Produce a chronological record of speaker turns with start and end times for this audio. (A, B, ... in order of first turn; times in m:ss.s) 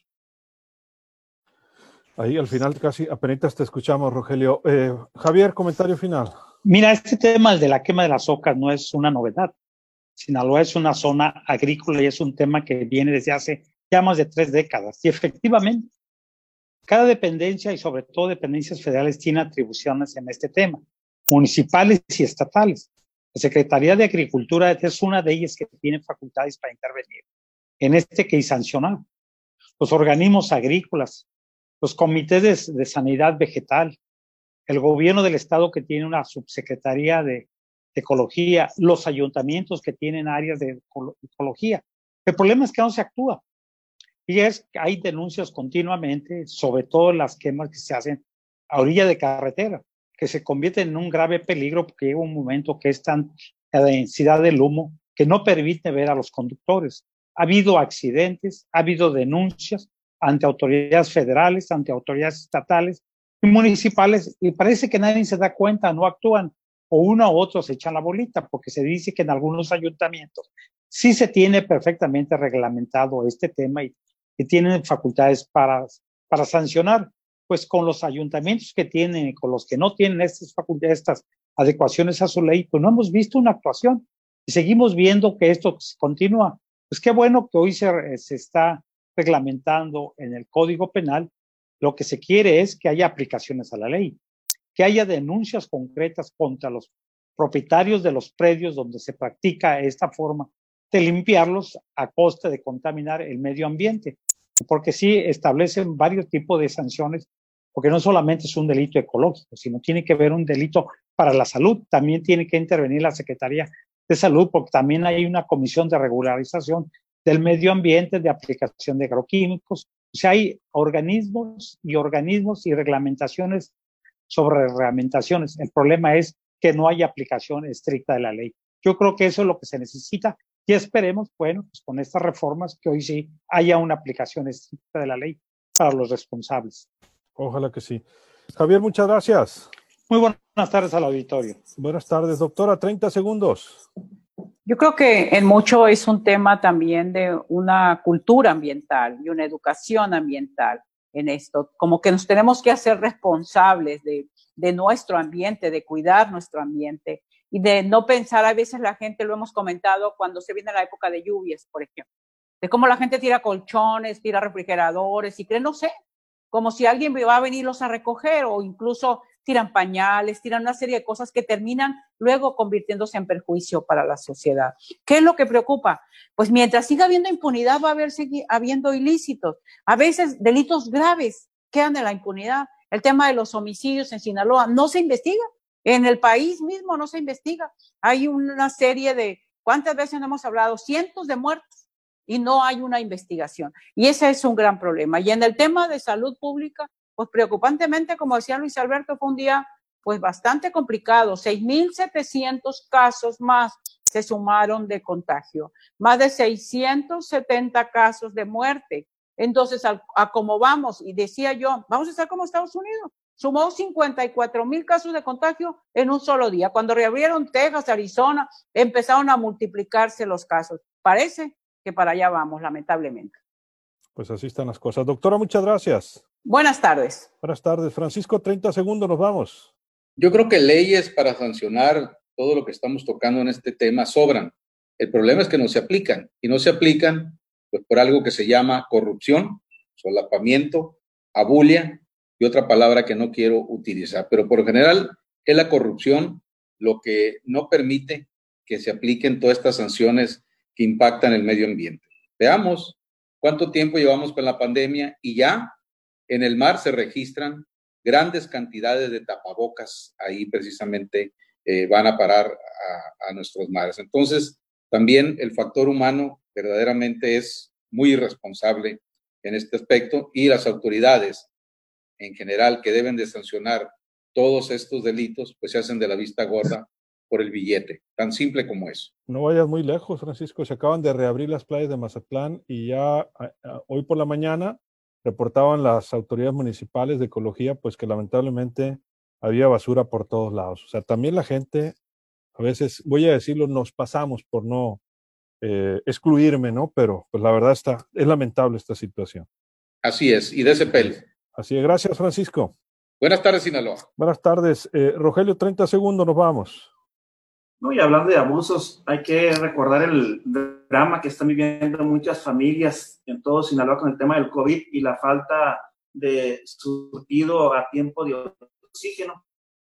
0:02.2-0:06.3 A
0:06.6-0:09.5 B
0:10.2-0:15.9 B
0:16.9-0:27.2 B
0:27.8-0:29.0 B
0:29.8-0:31.2 B
0:31.8-0:34.0 B
0:34.7-0:43.4 B
0:44.3-1:31.3 B
1:31.8-1:34.2 B
1:34.8-2:03.7 B
2:04.3-2:16.8 B
2:17.4-2:19.7 A
2:20.1-2:21.6 B
2:21.8-2:23.8 A
2:24.6-2:42.0 C
2:42.6-2:45.9 C
2:46.5-3:11.6 C
3:12.3-3:43.3 C
3:44.1-3:46.2 A
3:46.4-3:47.3 C
3:47.4-3:49.7 A
3:50.2-4:15.8 D
4:16.3-4:31.5 D
4:32.2-4:39.1 D
4:39.3-4:52.0 A
4:52.6-4:55.0 A
4:55.6-4:59.4 A
5:00.0-5:01.2 D
5:01.5-5:02.7 A
5:03.2-5:04.1 D
5:04.2-5:06.9 A
5:07.8-5:19.4 E